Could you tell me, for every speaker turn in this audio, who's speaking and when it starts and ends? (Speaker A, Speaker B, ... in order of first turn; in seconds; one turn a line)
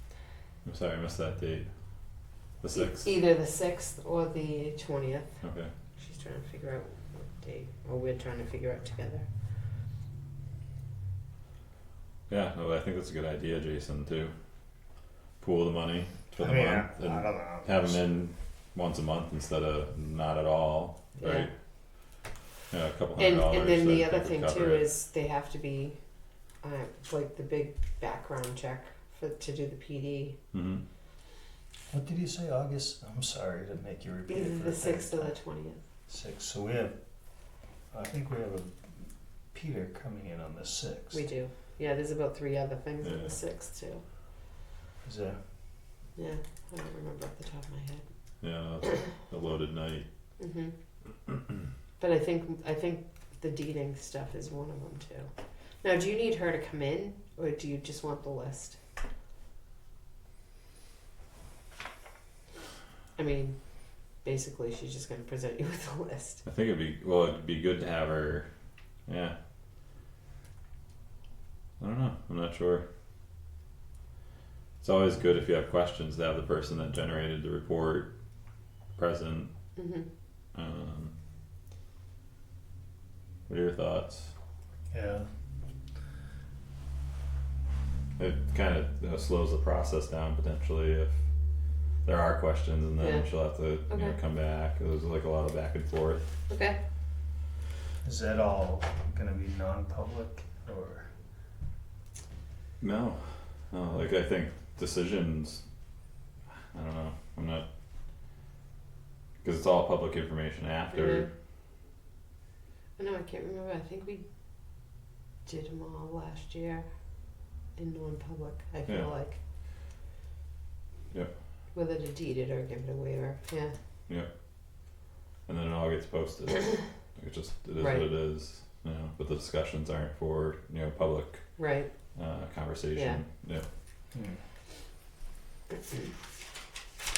Speaker A: 0.7-1.7
Speaker A: 2.6-3.1
Speaker B: 2.7-5.3
Speaker A: 5.4-5.7
Speaker B: 6.0-9.3
Speaker A: 12.3-14.3
Speaker A: 15.4-21.5
Speaker C: 16.4-18.0
Speaker B: 21.2-21.5
Speaker A: 22.7-24.9
Speaker B: 23.2-26.0
Speaker B: 26.6-30.4
Speaker A: 30.5-30.8
Speaker C: 31.9-35.4
Speaker B: 34.3-35.8
Speaker C: 36.1-37.0
Speaker C: 37.9-38.9
Speaker C: 39.5-41.2
Speaker B: 41.1-44.0
Speaker A: 43.0-43.4
Speaker C: 45.0-45.4
Speaker B: 46.2-48.0
Speaker A: 48.4-50.0
Speaker B: 50.4-50.7
Speaker B: 52.0-55.3
Speaker B: 55.8-58.8
Speaker B: 63.2-63.5
Speaker B: 64.2-66.4
Speaker A: 66.5-68.5
Speaker A: 69.1-69.3
Speaker A: 71.8-72.8
Speaker A: 74.8-78.1
Speaker A: 79.0-79.5
Speaker B: 79.8-80.1
Speaker A: 80.5-81.1
Speaker A: 83.5-84.3
Speaker C: 84.9-85.3
Speaker A: 88.2-91.2
Speaker A: 92.0-96.3
Speaker B: 93.0-93.3
Speaker B: 93.9-94.2
Speaker B: 96.5-96.8
Speaker C: 98.0-101.1
Speaker A: 102.8-105.6
Speaker A: 106.7-107.7
Speaker A: 109.4-111.3
Speaker B: 110.9-111.3
Speaker B: 113.0-114.2
Speaker B: 115.5-116.9
Speaker B: 117.8-119.4
Speaker B: 121.7-123.7
Speaker A: 125.5-131.6
Speaker B: 127.8-128.1
Speaker B: 131.6-131.9
Speaker A: 132.2-133.7
Speaker C: 134.1-134.4